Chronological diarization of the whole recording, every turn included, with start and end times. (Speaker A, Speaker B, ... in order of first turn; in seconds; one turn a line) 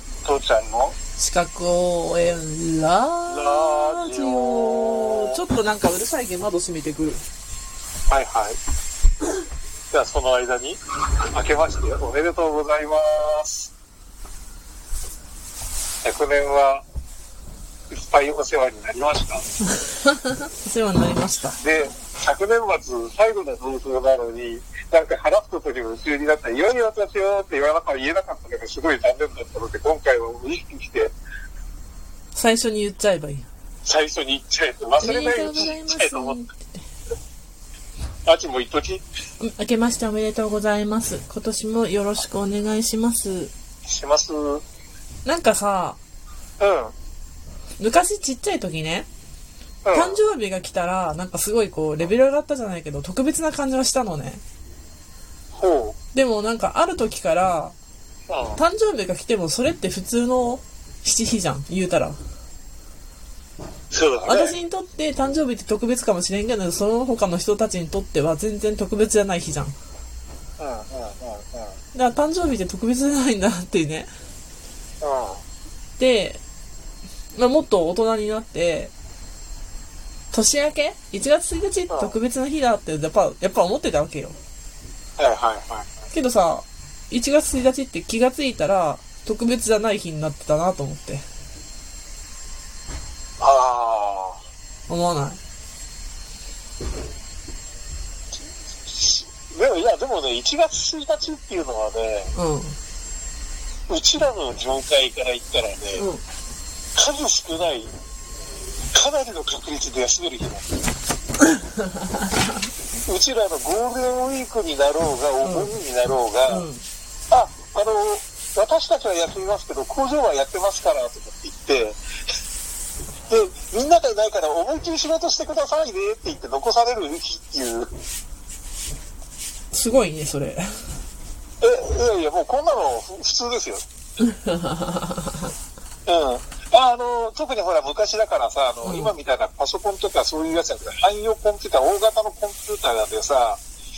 Speaker A: 0.2-0.9
Speaker B: 1.2-7.2
Speaker A: 3.3-5.4
Speaker A: 8.1-8.6
Speaker A: 9.9-10.8
Speaker A: 11.3-13.7
Speaker A: 16.0-16.8
Speaker A: 17.9-19.4
Speaker B: 19.9-21.6
Speaker A: 21.6-31.1
Speaker B: 32.3-33.5
Speaker A: 33.8-36.4
Speaker B: 35.0-36.8
Speaker A: 38.2-39.0
Speaker B: 39.4-43.5
Speaker A: 43.9-44.6
Speaker B: 45.2-46.0
Speaker A: 46.6-46.9
Speaker B: 47.8-49.1
Speaker A: 49.8-50.2
Speaker B: 49.9-54.4
Speaker A: 55.5-56.0
Speaker B: 56.1-57.7
Speaker A: 58.3-58.6
Speaker B: 58.5-62.2
Speaker A: 63.9-64.5
Speaker B: 64.2-69.7
Speaker A: 70.6-71.8
Speaker B: 71.9-74.1
Speaker A: 75.0-75.4
Speaker B: 76.0-76.4
Speaker B: 77.3-78.9
Speaker B: 80.3-84.4
Speaker A: 81.9-82.2
Speaker A: 85.2-85.9
Speaker B: 86.1-91.2
Speaker A: 93.4-94.4
Speaker B: 94.9-95.4
Speaker A: 98.8-102.3
Speaker B: 102.3-102.8
Speaker A: 103.9-106.1
Speaker B: 106.0-106.2
Speaker A: 107.0-107.9
Speaker A: 108.9-110.6
Speaker B: 111.5-112.3
Speaker A: 113.0-116.7
Speaker B: 115.4-115.7
Speaker B: 116.5-116.8
Speaker A: 117.3-122.0
Speaker A: 123.3-127.9
Speaker B: 129.7-130.7
Speaker A: 131.6-133.8
Speaker B: 134.3-135.3
Speaker A: 136.1-143.6
Speaker B: 138.8-139.1